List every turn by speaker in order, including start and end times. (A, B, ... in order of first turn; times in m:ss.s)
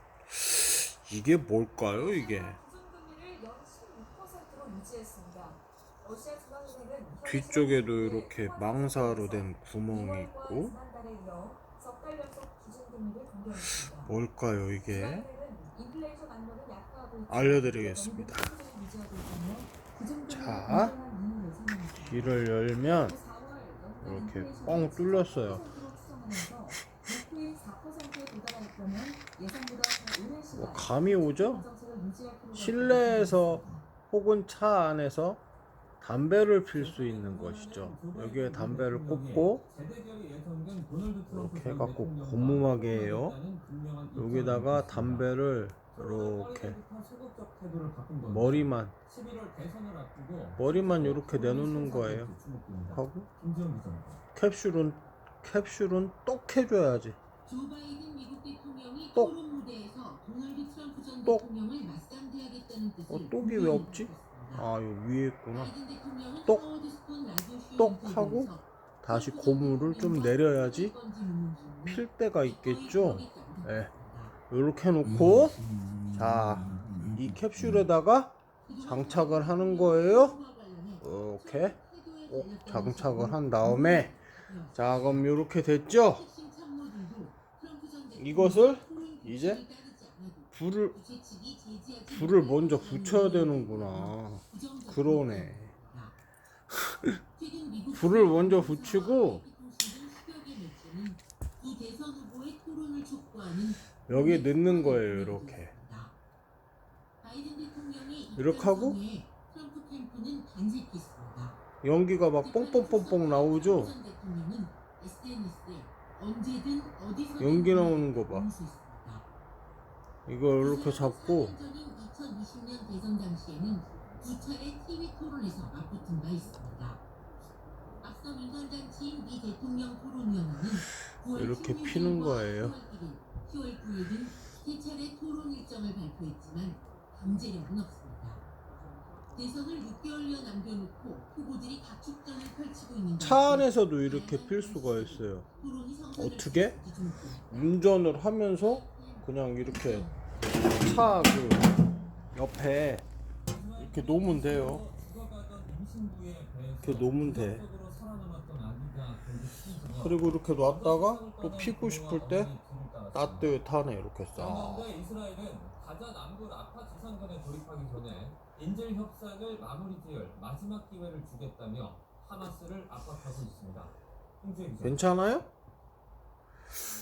0:00.3-0:02.6 A
0:01.9-0:14.2 B
0:07.2-0:10.8 A
0:13.5-0:15.3 A
0:14.7-0:33.9 B
0:17.3-0:18.5 A
0:20.3-0:21.0 A
0:21.9-0:23.2 A
0:24.0-0:25.6 A
0:30.6-0:31.7 A
0:32.5-0:35.4 A
0:36.0-0:39.6 A
0:36.7-0:45.3 C
0:41.3-0:43.4 A
0:44.2-0:46.8 A
0:45.9-0:54.2 C
0:48.3-0:49.0 A
0:50.6-0:52.3 A
0:52.9-0:53.3 A
0:54.4-0:57.2 A
0:57.5-1:04.7 D
1:03.1-1:05.8 A
1:05.5-1:14.4 D
1:07.8-1:11.0 A
1:11.9-1:13.9 A
1:14.5-1:15.6 A
1:15.0-1:17.9 D
1:16.2-1:20.4 A
1:18.6-1:25.4 D
1:21.0-1:21.8 A
1:22.3-1:24.2 A
1:24.8-1:26.2 A
1:26.0-1:36.2 D
1:28.2-1:29.6 A
1:30.5-1:31.0 A
1:32.1-1:35.7 A
1:37.4-1:46.2 D
1:37.9-1:39.4 A
1:44.1-1:45.7 A
1:47.2-1:51.6 D
1:48.4-1:49.0 A
1:51.8-1:54.0 A
1:52.4-1:59.3 D
1:57.4-1:58.5 A
2:00.3-2:01.6 A
2:00.6-2:07.0 D
2:08.0-2:18.4 D
2:11.3-2:12.8 A
2:19.3-2:31.6 D
2:23.2-2:25.5 A
2:26.2-2:26.8 A
2:27.5-2:31.8 A
2:32.3-2:33.1 A
2:33.5-2:43.6 C
2:33.8-2:34.9 A
2:36.8-2:37.6 A
2:39.9-2:42.5 A
2:43.1-2:44.9 A
2:44.4-2:55.1 C
2:54.8-2:55.5 A